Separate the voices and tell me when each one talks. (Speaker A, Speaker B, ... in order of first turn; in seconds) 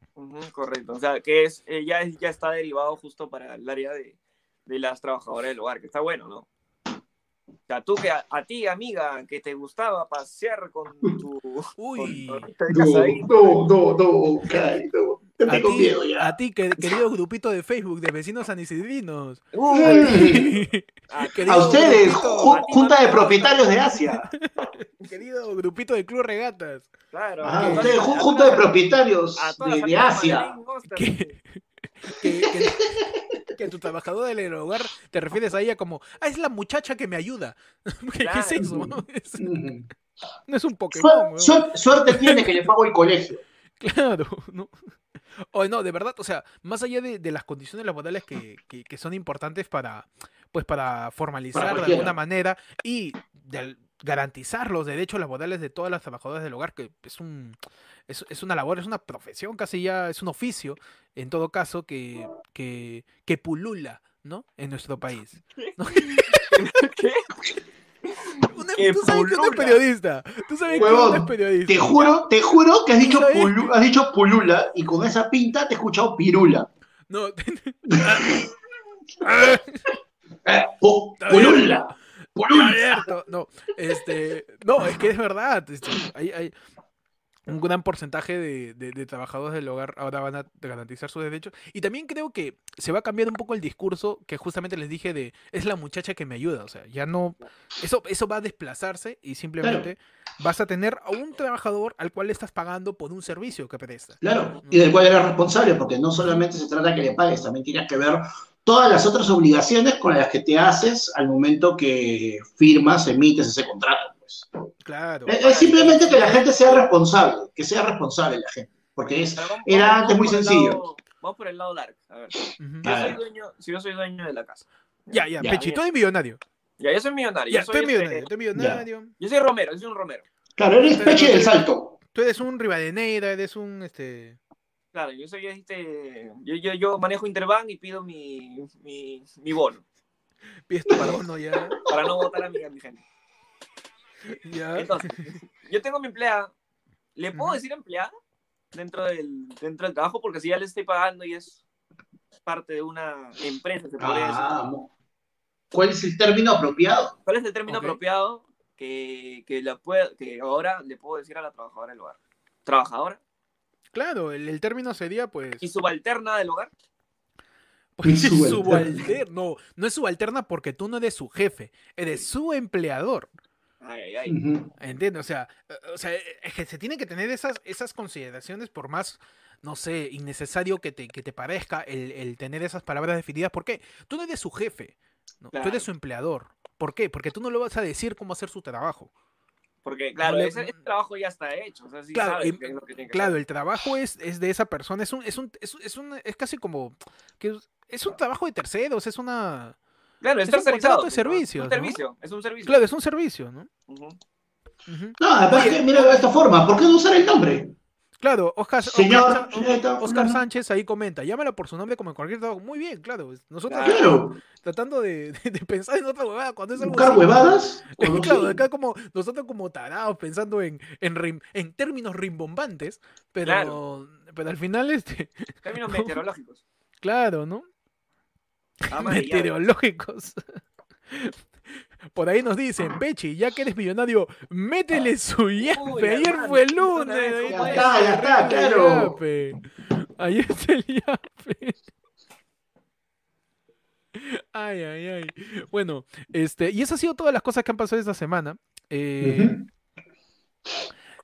Speaker A: 0.2-6.5, 7.7-13.7, 19.5-20.5, 21.1-23.7, 27.1-28.8, 29.4-31.3, 38.2-38.6, 65.6-67.3, 68.8-69.3, 70.7-71.0, 115.4-116.5, 119.4-125.8, 126.8-128.3, 129.2-130.2, 134.9-139.8, 141.9-143.0, 144.8-146.5, 147.2-148.1, 148.7-151.6, 152.5-154.6, 157.2-163.2, 165.6-166.7, 173.8-174.4, 185.5-185.9, 189.8-193.4, 200.2-202.8, 203.9-204.2, 213.7-214.2, 223.4-223.8, 225.6-226.6, 228.9-229.5, 235.6-238.1
Speaker B: 11.8-12.5, 15.4-22.6, 24.3-26.9, 27.6-28.1, 30.9-33.0, 33.5-39.5, 40.5-42.6, 43.8-44.7, 45.5-57.6, 58.1-66.7, 68.5-72.1, 73.0-73.8, 77.1-78.5, 79.2-80.0, 81.2-81.8, 82.4-86.5, 87.5-105.0, 114.8-115.4, 122.6-122.9, 125.1-126.4, 127.5-129.1, 130.9-131.6, 132.1-134.4, 140.7-141.8, 144.4-145.1, 147.3-147.6, 157.7-158.0, 163.9-165.7, 168.0-173.3, 174.8-189.1, 190.2-190.8, 192.1-199.8, 200.5-202.0, 202.7-203.7, 204.9-206.3, 208.2-226.2, 227.0-227.7, 228.9-230.4, 232.1-241.8, 244.2-249.6
Speaker C: 12.7-17.0, 19.7-20.6, 21.5-24.3, 27.4-30.5, 32.2-33.0, 38.6-39.9, 40.9-43.4, 51.5-52.2, 69.0-69.8, 70.8-76.7, 77.9-78.4, 80.5-82.9, 99.6-99.9, 104.2-114.5, 115.3-120.8, 122.4-123.2, 125.4-125.7, 128.6-128.8, 130.6-132.0, 154.0-154.9, 155.7-157.1, 168.0-169.2, 174.3-174.7, 205.2-207.7, 208.8-210.4, 213.8-214.4, 216.8-218.6, 237.5-239.2, 249.2-249.7